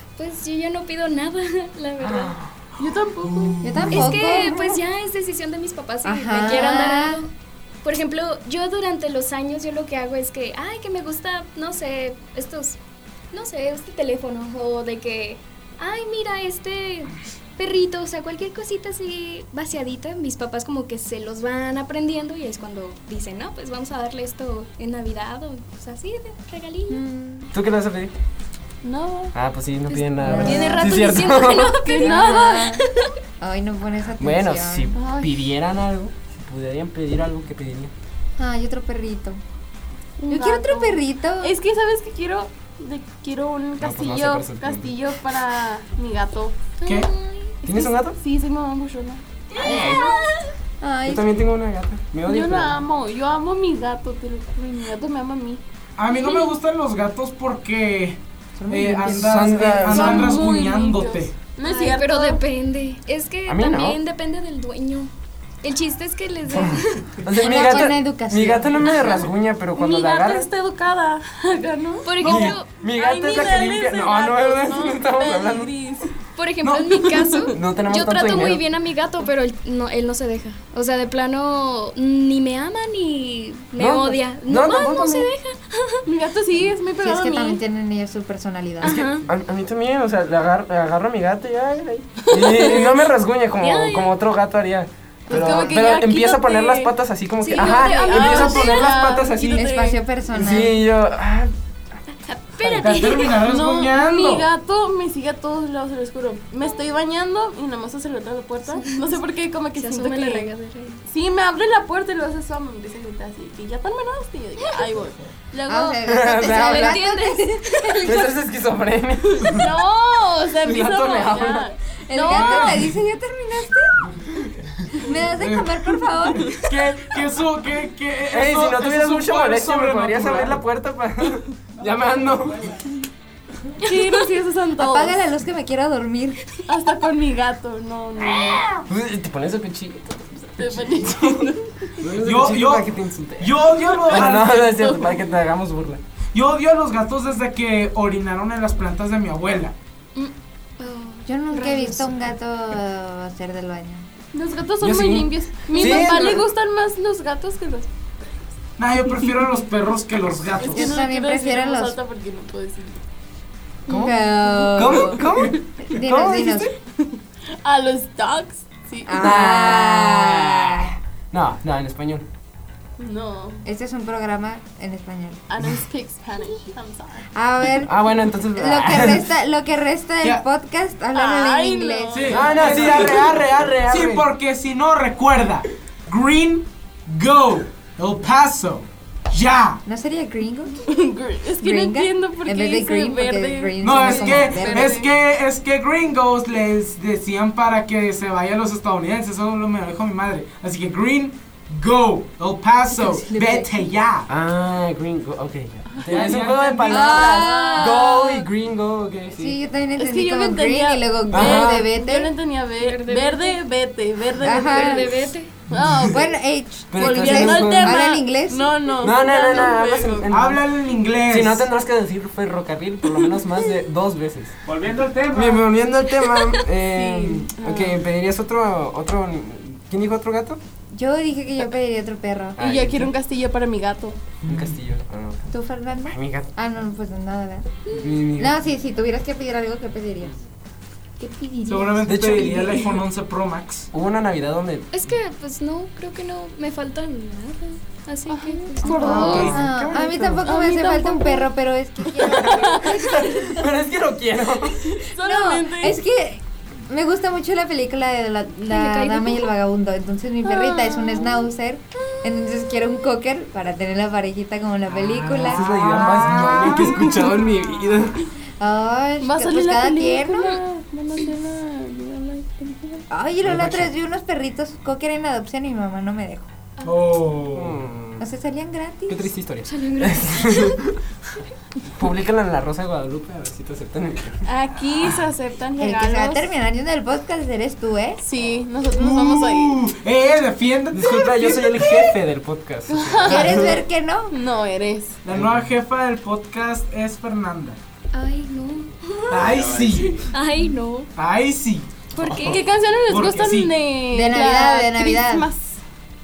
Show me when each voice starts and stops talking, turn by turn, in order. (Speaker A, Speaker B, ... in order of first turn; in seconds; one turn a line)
Speaker A: 0.2-2.4
Speaker B: 2.0-2.5
Speaker C: 2.8-3.6
Speaker D: 2.8-4.1
Speaker E: 3.6-4.8
Speaker A: 3.8-7.3
Speaker E: 6.0-7.2
Speaker A: 7.8-12.8
Speaker A: 13.3-27.0
Speaker E: 26.9-27.5
Speaker B: 27.5-28.1
Speaker C: 28.8-29.3
Speaker B: 29.3-31.8
Speaker A: 29.9-32.5
Speaker E: 30.2-30.9
Speaker C: 31.8-32.8
Speaker E: 31.9-32.9
Speaker E: 33.4-35.0
Speaker B: 34.2-37.9
Speaker C: 34.9-35.5
Speaker E: 38.4-39.4
Speaker E: 40.3-41.5
Speaker C: 40.3-46.6
Speaker B: 43.8-45.0
Speaker A: 46.8-47.6
Speaker D: 46.8-47.1
Speaker C: 47.6-49.2
Speaker B: 47.6-48.1
Speaker A: 49.5-50.5
Speaker E: 49.5-50.1
Speaker B: 49.6-50.1
Speaker E: 50.8-51.2
Speaker B: 51.0-52.8
Speaker C: 52.2-55.6
Speaker D: 56.0-61.3
Speaker E: 58.6-59.4
Speaker B: 59.1-60.1
Speaker C: 59.9-62.4
Speaker A: 61.6-65.1
Speaker B: 63.5-64.0
Speaker A: 65.6-67.9
Speaker B: 66.4-70.5
Speaker E: 67.3-68.9
Speaker A: 68.9-69.3
Speaker C: 69.7-76.1
Speaker A: 72.0-72.7
Speaker B: 72.2-75.8
Speaker A: 76.3-86.0
Speaker D: 76.6-76.9
Speaker C: 76.7-77.6
Speaker B: 77.5-78.6
Speaker B: 83.8-85.3
Speaker C: 86.0-87.6
Speaker E: 87.0-89.0
Speaker B: 88.8-99.7
Speaker A: 88.8-89.2
Speaker C: 92.2-92.8
Speaker A: 93.6-94.1
Speaker C: 95.3-96.9
Speaker E: 95.3-95.8
Speaker A: 97.4-98.9
Speaker C: 97.5-100.0
Speaker E: 99.4-100.8
Speaker B: 100.3-101.5
Speaker C: 102.2-102.6
Speaker A: 102.6-103.5
Speaker B: 102.6-102.9
Speaker D: 102.8-104.5
Speaker C: 103.4-110.5
Speaker A: 109.7-111.0
Speaker C: 111.0-116.0
Speaker E: 115.7-118.2
Speaker B: 116.0-117.0
Speaker A: 116.4-118.3
Speaker B: 118.0-119.7
Speaker C: 119.4-122.7
Speaker B: 120.6-121.7
Speaker E: 122.1-124.1
Speaker D: 122.3-122.9
Speaker E: 124.9-126.6
Speaker D: 125.3-130.6
Speaker B: 128.3-132.9
Speaker C: 133.8-135.2
Speaker E: 134.8-136.5
Speaker C: 136.7-138.6
Speaker B: 138.2-141.5
Speaker C: 140.6-142.0
Speaker B: 142.0-146.0
Speaker D: 142.2-144.8
Speaker C: 144.1-145.2
Speaker D: 146.3-149.7
Speaker A: 150.2-152.2
Speaker E: 151.2-154.1
Speaker C: 154.3-157.9
Speaker B: 154.8-156.4
Speaker D: 158.8-161.0
Speaker C: 160.6-163.0
Speaker E: 160.7-161.9
Speaker A: 163.9-164.2
Speaker B: 163.9-166.7
Speaker E: 163.9-165.2
Speaker E: 165.8-166.7
Speaker C: 167.6-169.2
Speaker E: 169.1-170.9
Speaker B: 169.1-172.3
Speaker C: 173.0-173.6
Speaker E: 173.6-175.4
Speaker C: 175.5-177.3
Speaker E: 177.3-177.9
Speaker B: 177.8-179.3
Speaker E: 178.5-182.4
Speaker C: 181.1-182.7
Speaker D: 182.1-189.8
Speaker B: 182.3-184.3
Speaker E: 189.8-190.8
Speaker C: 190.8-195.1
Speaker E: 191.6-195.0
Speaker D: 193.8-204.3
Speaker E: 202.9-203.9
Speaker B: 204.3-209.6
Speaker C: 206.0-206.2
Speaker D: 206.1-207.3
Speaker E: 206.8-208.5
Speaker C: 207.2-207.9
Speaker E: 209.3-212.3
Speaker C: 209.9-216.3
Speaker B: 211.3-211.9
Speaker A: 212.8-213.6
Speaker E: 214.4-215.2
Speaker A: 214.5-215.5
Speaker E: 216.1-218.7
Speaker B: 216.9-218.0
Speaker C: 216.9-220.3
Speaker B: 219.0-220.6
Speaker D: 220.3-221.7
Speaker B: 221.3-224.6
Speaker D: 224.8-225.3
Speaker B: 225.3-230.6
Speaker A: 226.2-226.6
Speaker C: 227.4-228.0
Speaker E: 230.9-232.6
Speaker B: 232.6-233.1
Speaker C: 232.6-234.2
Speaker D: 234.4-234.8
Speaker B: 234.5-236.5
Speaker E: 235.5-237.7
Speaker A: 237.9-238.2
Speaker B: 237.9-238.6
Speaker E: 238.3-240.3
Speaker E: 241.2-242.1
Speaker D: 241.7-243.9
Speaker B: 242.0-242.9
Speaker B: 243.9-245.0
Speaker A: 244.9-249.5
Speaker C: 248.3-249.6
Speaker E: 248.8-253.6
Speaker B: 248.9-250.5
Speaker C: 250.4-251.5
Speaker B: 252.2-254.9
Speaker C: 252.2-253.1
Speaker C: 254.7-256.0
Speaker E: 255.2-266.8
Speaker A: 258.7-259.5
Speaker C: 260.4-261.4
Speaker B: 265.1-268.2
Speaker D: 265.2-267.2
Speaker C: 267.0-267.9
Speaker E: 268.6-270.6
Speaker C: 269.2-273.1
Speaker E: 273.1-276.5
Speaker B: 273.4-273.9
Speaker D: 276.8-277.8
Speaker B: 277.5-278.3
Speaker E: 278.2-279.3
Speaker B: 279.1-280.9
Speaker A: 279.6-280.8
Speaker B: 281.9-284.4
Speaker C: 284.4-286.5
Speaker E: 285.8-288.2
Speaker C: 288.2-289.8
Speaker D: 289.0-292.1
Speaker B: 290.9-293.8
Speaker C: 292.9-293.7
Speaker E: 293.2-294.3
Speaker C: 294.3-295.2
Speaker D: 295.2-297.8
Speaker B: 295.3-295.6
Speaker A: 298.1-299.7
Speaker D: 299.3-300.3
Speaker A: 300.3-301.1
Speaker D: 301.1-302.0
Speaker A: 302.1-302.6
Speaker B: 302.2-302.6
Speaker C: 302.4-305.8
Speaker D: 303.1-303.7
Speaker E: 304.1-305.5